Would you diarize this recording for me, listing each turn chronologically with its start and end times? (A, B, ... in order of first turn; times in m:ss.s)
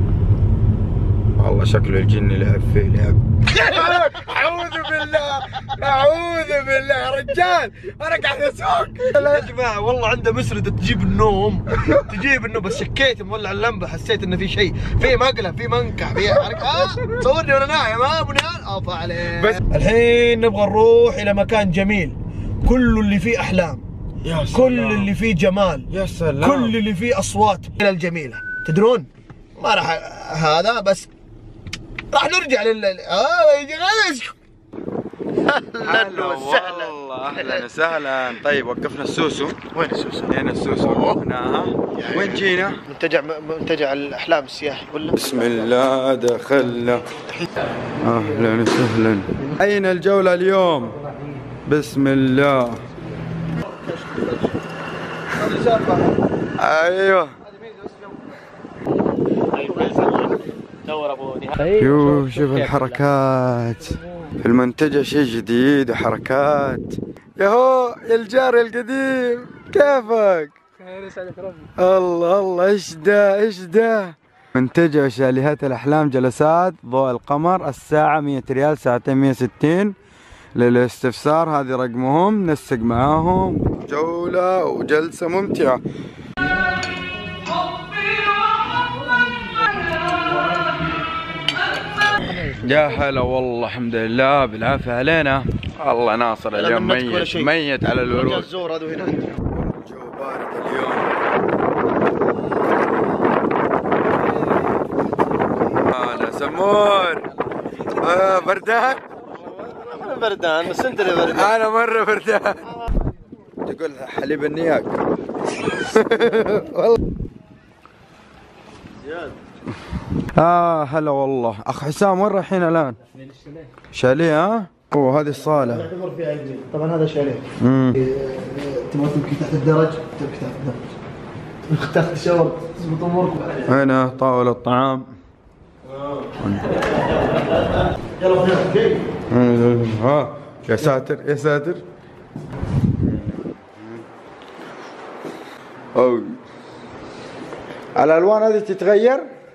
0:01.4-0:09.5 A
0:03.5-0:04.3 B
0:09.1-0:23.8 B
0:24.2-0:25.1 A
0:24.5-0:25.9 B
0:25.9-0:26.8 A
0:26.4-0:31.1 B
0:32.1-0:34.3 B
0:35.4-0:37.7 B
0:35.8-0:39.6 A
0:39.7-0:41.2 B
0:40.3-0:42.8 A
0:41.9-0:45.7 B
0:45.2-0:47.0 A
0:48.0-0:51.0 A
0:48.0-0:48.5 B
0:51.6-0:52.8 A
0:53.5-0:54.6 B
0:55.3-0:56.2 B
0:56.6-0:57.3 A
0:57.4-0:58.3 B
0:59.6-1:00.4 B
1:01.8-1:10.5 A
1:11.8-1:19.9 A
1:20.6-1:25.8 A
1:32.6-1:38.5 A
1:36.5-1:37.5 B
1:38.0-1:39.3 B
1:39.4-1:41.1 A
1:44.7-1:45.9 B
1:45.9-1:47.2 A
1:48.0-1:49.0 A
1:49.3-1:51.5 B
1:51.1-1:52.7 A
1:53.6-1:55.0 A
1:55.6-1:57.0 A
2:00.3-2:03.0 A
2:03.9-2:05.9 A
2:05.4-2:07.4 B
2:07.6-2:08.0 A
2:08.0-2:11.0 B
2:11.7-2:13.7 B
2:13.7-2:15.1 A
2:16.0-2:16.2 B
2:16.4-2:16.8 A
2:18.2-2:19.1 B
2:19.3-2:21.8 A
2:23.0-2:24.0 A
2:25.9-2:26.4 A
2:27.9-2:29.2 A